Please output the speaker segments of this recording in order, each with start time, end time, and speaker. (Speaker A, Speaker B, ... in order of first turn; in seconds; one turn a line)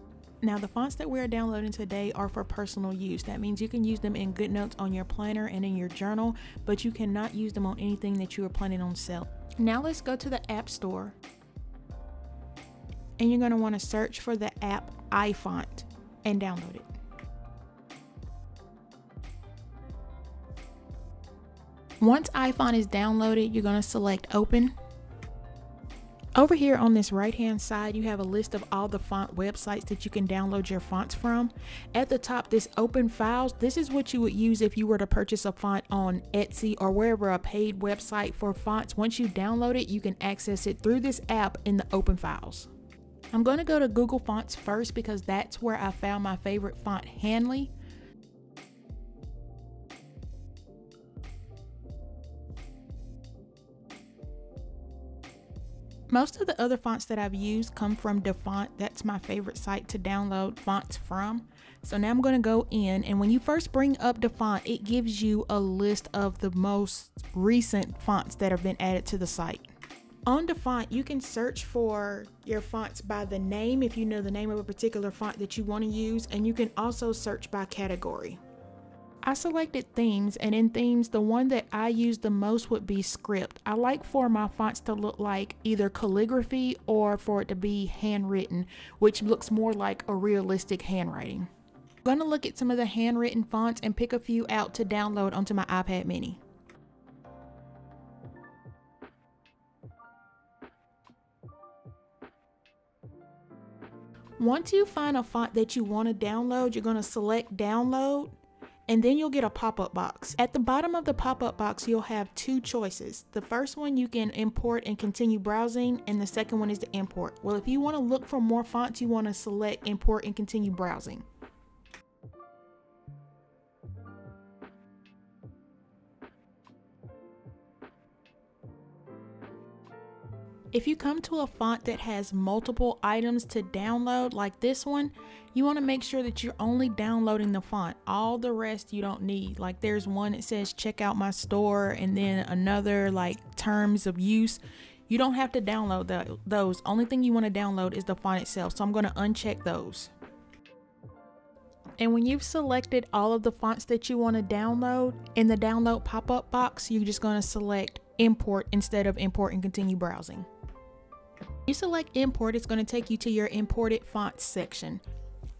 Speaker A: 0.4-11.2
Speaker A: 13.2-16.9
Speaker A: 22.0-24.7
Speaker A: 26.4-42.7
Speaker A: 43.3-47.7
Speaker A: 56.1-69.7
Speaker A: 70.2-78.4
Speaker A: 79.2-91.5
Speaker A: 92.0-96.4
Speaker A: 104.4-108.3
Speaker A: 108.9-121.2
Speaker A: 130.7-150.1
Speaker A: 152.0-160.5
Speaker A: 161.7-165.0